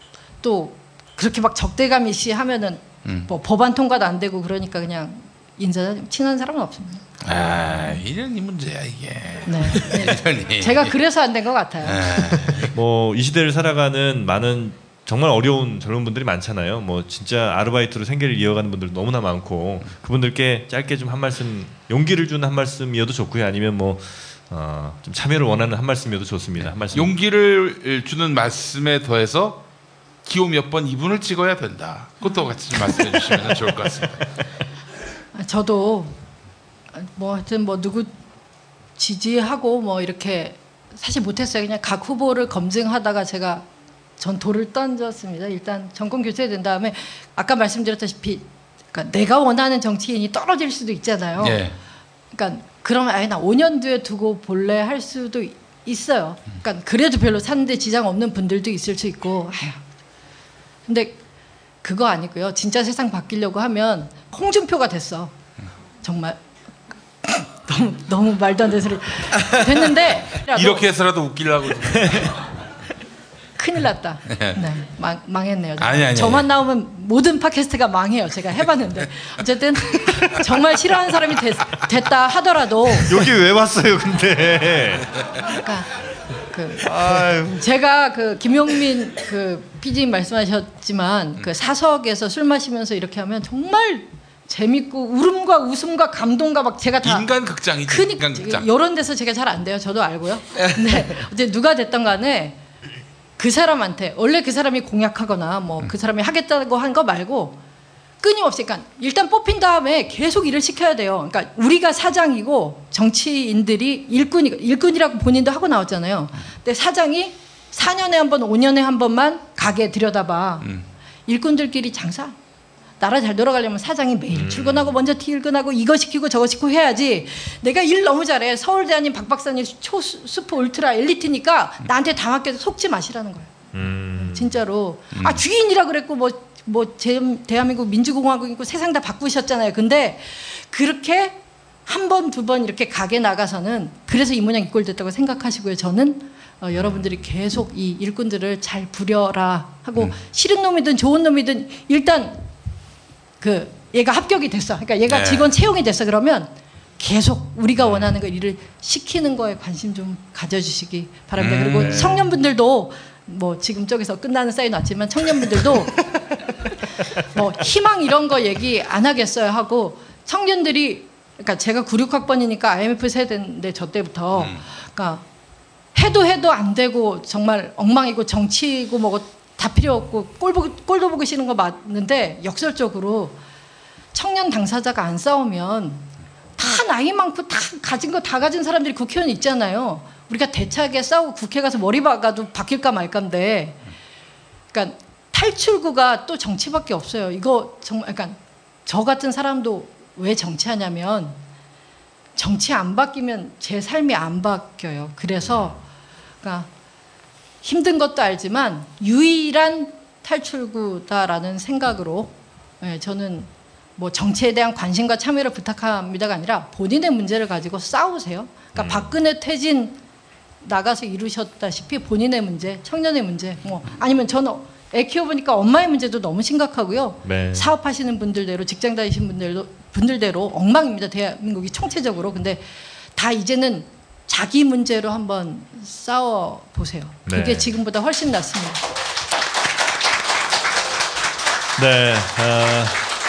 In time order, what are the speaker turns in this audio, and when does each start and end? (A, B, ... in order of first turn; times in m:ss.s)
0:00.4-0:07.0 A
0:07.2-0:10.9 B
0:09.4-0:12.2 A
0:11.8-0:12.7 B
0:12.7-0:27.2 C
0:26.9-0:29.6 B
0:30.2-0:34.2 B
0:35.3-0:36.1 A
0:36.9-0:38.1 A
0:39.0-0:43.6 A
0:44.2-0:51.6 A
0:51.4-0:51.7 B
0:52.3-0:59.8 A
1:00.9-1:01.2 A
1:01.8-1:05.3 A
1:06.0-1:06.4 A
1:07.2-1:10.9 A
1:10.5-1:12.4 B
1:13.6-1:23.2 A
1:14.3-1:14.6 B
1:15.8-1:16.5 B
1:23.1-1:25.1 C
1:25.5-1:25.9 A
1:26.5-1:37.3 A
1:26.8-1:27.6 C
1:37.0-1:38.6 B
1:37.8-1:42.6 A
1:43.4-1:47.6 A
1:48.2-2:00.7 A
2:01.3-2:02.4 A
2:03.0-2:13.5 A
2:04.3-2:05.0 C
2:13.7-2:14.6 C
2:14.1-2:32.4 A
2:15.1-2:15.4 B
2:33.4-2:46.0 A
2:35.1-2:35.5 B
2:37.8-2:38.1 C
2:41.4-2:42.2 B
2:41.7-2:42.3 C
2:47.3-2:55.2 A
2:54.4-2:54.6 B
2:55.9-3:03.4 A
3:04.1-3:13.8 A
3:14.7-3:21.4 A
3:22.4-3:25.8 A
3:26.4-3:26.7 A
3:27.6-3:40.0 A
3:38.7-3:39.2 C
3:40.6-3:58.8 A
3:47.2-3:47.7 C
3:57.2-3:57.7 C
4:01.8-4:03.0 C